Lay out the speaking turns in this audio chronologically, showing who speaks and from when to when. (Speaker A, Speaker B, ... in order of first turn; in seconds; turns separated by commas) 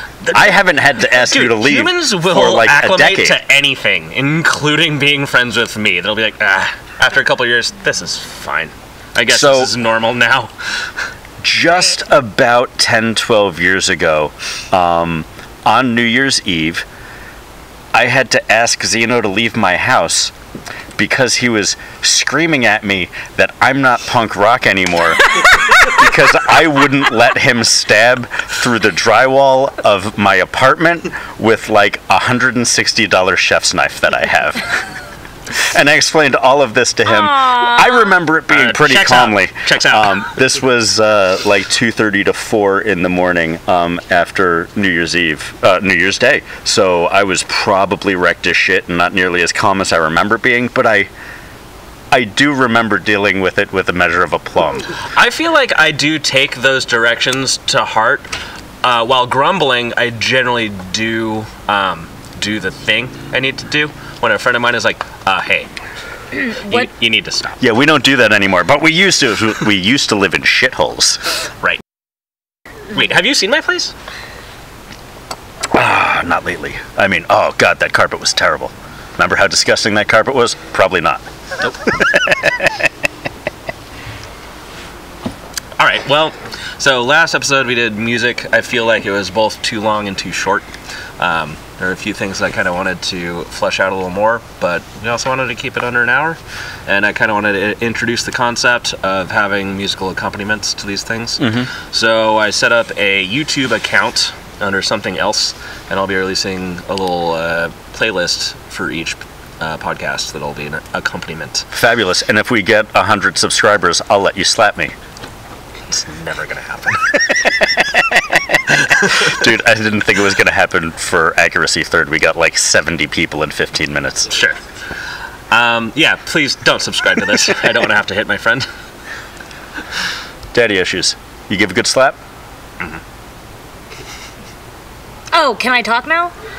Speaker A: 0.2-0.5, Speaker B: 0.3-3.4, Speaker A: 1.1-10.9, Speaker B: 9.3-9.7, Speaker B: 11.4-16.8, Speaker B: 17.9-20.3, Speaker B: 20.9-34.8, Speaker B: 35.5-51.1, Speaker C: 37.1-38.1, Speaker A: 38.5-40.4, Speaker B: 52.1-54.9, Speaker A: 55.1-58.3, Speaker A: 58.8-65.7, Speaker C: 66.4-66.9, Speaker A: 66.4-67.6, Speaker B: 67.6-71.2, Speaker A: 72.9-73.9, Speaker B: 75.7-81.2, Speaker B: 81.8-82.9, Speaker A: 85.8-111.7, Speaker B: 101.4-101.7, Speaker B: 111.7-114.9, Speaker A: 115.9-117.2, Speaker B: 117.7-124.3, Speaker A: 118.7-119.2, Speaker A: 124.3-124.6, Speaker A: 125.5-128.7, Speaker B: 130.5-132.2, Speaker C: 135.3-136.3